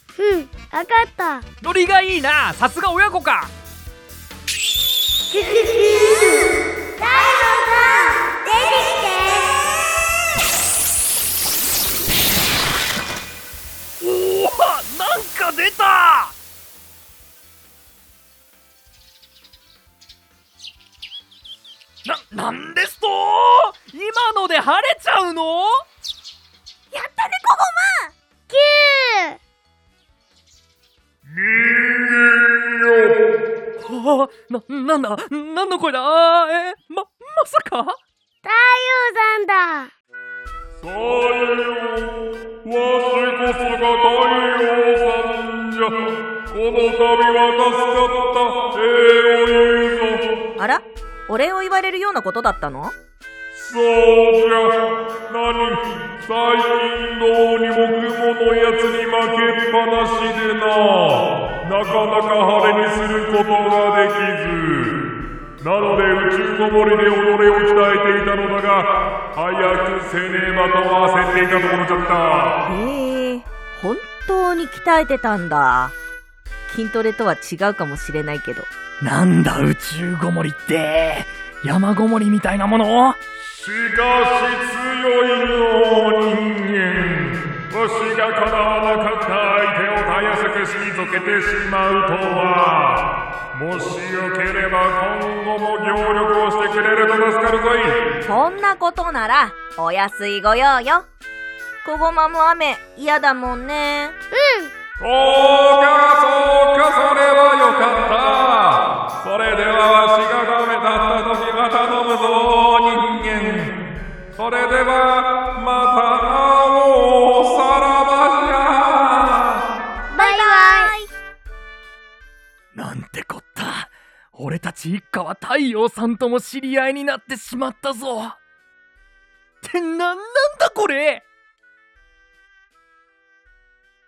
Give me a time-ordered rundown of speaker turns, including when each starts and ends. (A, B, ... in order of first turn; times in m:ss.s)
0:00.2-0:01.4 A
0:01.6-0:03.5 B
0:05.3-0:09.7 A
0:14.0-0:16.3 B
0:22.0-0:25.8 B
0:26.9-0:28.1 C
0:28.5-0:29.4 A
0:31.5-0:32.5 D
0:33.8-0:38.0 B
0:38.4-0:39.9 A
0:40.8-0:46.0 D
0:46.5-0:50.2 D
0:50.6-0:52.9 C
0:53.5-0:54.7 D
0:55.3-1:04.9 D
1:05.6-1:12.5 D
1:12.6-1:15.9 C
1:16.7-1:18.7 C
1:19.0-1:23.2 B
1:23.5-1:38.1 D
1:38.2-1:41.1 C
1:41.8-1:44.1 C
1:44.3-1:44.7 A
1:45.0-1:53.7 D
1:54.3-1:59.6 D
2:00.1-2:01.1 C
2:00.2-2:00.9 A
2:02.7-2:08.4 B
2:09.6-2:11.2 B